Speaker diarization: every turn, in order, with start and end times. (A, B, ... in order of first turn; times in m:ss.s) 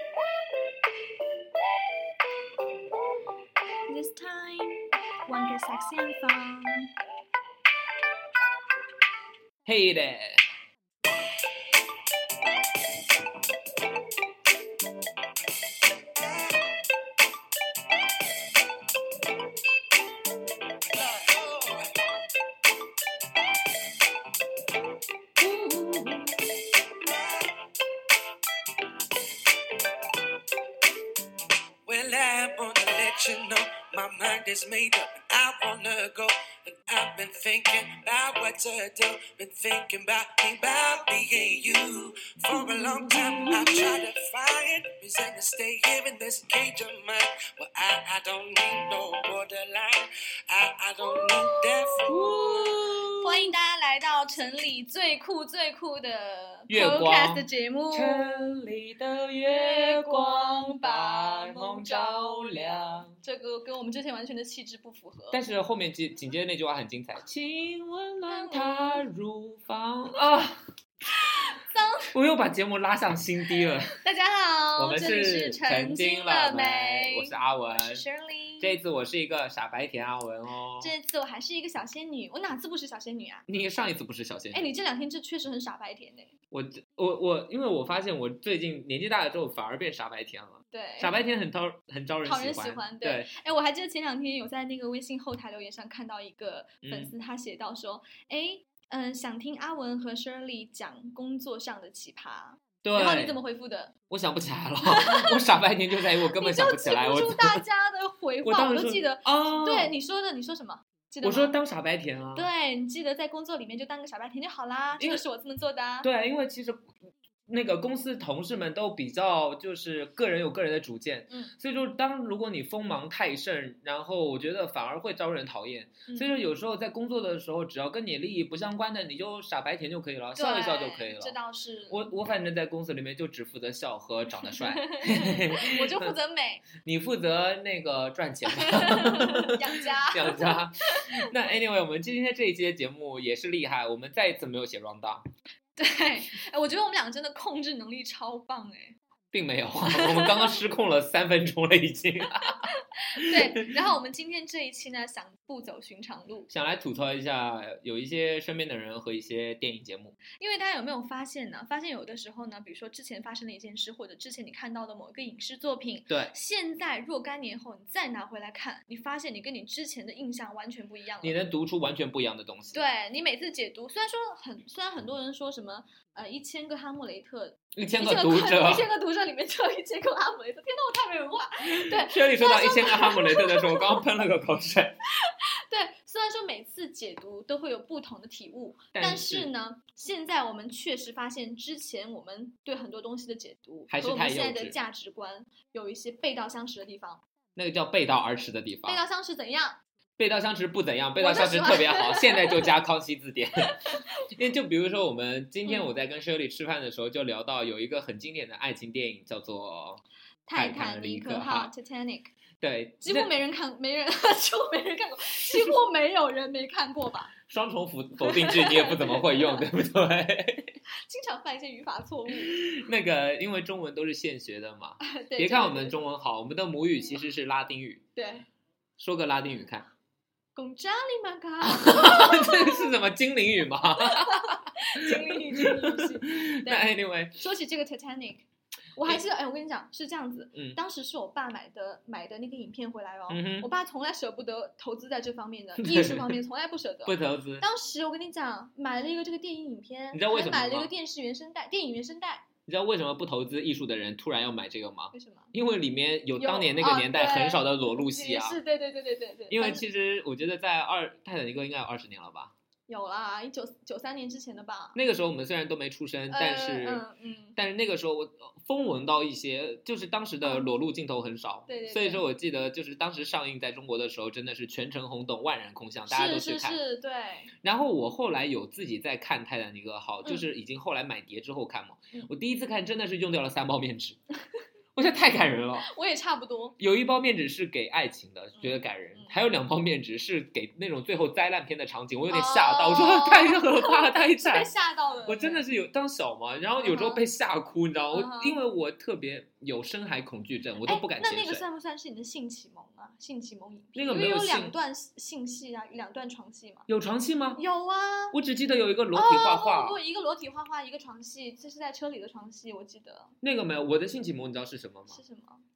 0:03.9-0:06.9 A
0:09.6-0:10.4 B
0:20.9-0:22.0 C
0:31.8-0:52.9 C
0:43.1-0:43.8 B
0:52.0-0:53.5 B
0:53.1-0:58.5 A
0:56.7-1:03.2 B
0:59.5-1:05.4 A
1:05.3-1:10.6 B
1:08.3-1:09.0 A
1:11.2-1:12.1 A
1:12.1-1:14.0 B
1:14.0-1:18.7 A
1:14.8-1:18.0 B
1:18.6-1:20.9 B
1:20.8-1:23.4 A
1:23.5-1:24.6 B
1:24.5-1:26.3 A
1:26.5-1:33.3 B
1:30.7-1:31.1 A
1:32.2-1:43.9 A
1:36.8-1:37.1 B
1:42.8-1:43.4 B
1:44.1-1:47.6 B
1:44.8-1:45.4 A
1:46.2-1:51.5 A
1:48.4-1:49.9 B
1:51.2-1:52.5 B
1:52.3-1:56.1 A
1:56.0-1:56.9 B
1:57.5-2:11.3 B
2:10.4-2:12.1 A
2:11.9-2:16.2 B
2:14.5-2:16.7 A
2:16.8-2:25.2 B
2:18.5-2:21.2 A
2:25.8-2:28.9 A
2:29.3-2:33.7 B
2:29.9-2:30.7 A
2:32.6-2:36.5 A
2:36.5-2:40.2 B
2:40.3-2:51.4 A
2:46.1-2:46.3 B
2:51.2-2:52.8 B
2:52.7-3:04.0 A
2:57.7-2:58.9 B
3:01.6-3:05.0 B
3:05.2-3:17.2 A
3:08.9-3:09.5 B
3:13.9-3:14.7 B
3:17.6-3:19.0 B
3:18.9-3:19.8 A
3:20.2-3:30.0 B
3:21.2-3:22.7 A
3:23.7-3:24.0 A
3:30.5-3:32.3 A
3:30.5-3:31.7 B
3:32.6-3:33.3 B
3:33.0-3:37.3 A
3:37.5-3:40.8 B
3:38.2-3:39.6 A
3:41.0-3:42.8 A
3:42.3-3:48.0 B
3:45.0-3:46.0 A
3:48.2-3:48.4 A
3:49.0-3:49.9 B
3:50.6-3:52.9 A
3:51.6-3:57.4 B
3:54.0-3:58.4 A
3:59.0-4:12.5 A
4:03.3-4:03.7 B
4:05.8-4:06.4 B
4:07.0-4:07.6 B
4:10.1-4:10.9 B
4:12.7-4:18.6 B
4:15.1-4:15.5 A
4:16.4-4:19.8 A
4:19.5-4:22.5 B
4:22.9-4:25.0 A
4:24.9-4:27.0 B
4:26.3-4:27.6 A
4:27.6-4:36.8 B
4:31.7-4:32.2 A
4:36.1-4:37.5 A
4:37.6-4:44.2 B
4:44.9-4:45.9 B
4:45.8-4:46.8 A
4:46.8-4:54.7 B
4:48.6-4:49.3 A
4:52.3-4:55.6 A
4:55.2-5:01.6 B
4:56.8-4:57.2 A
4:58.1-4:58.6 A
5:00.8-5:06.9 A
5:03.9-5:04.7 B
5:06.9-5:07.6 B
5:07.6-5:08.4 A
5:08.3-5:10.0 B
5:09.1-5:13.3 A
5:13.4-5:15.2 B
5:15.1-5:15.6 A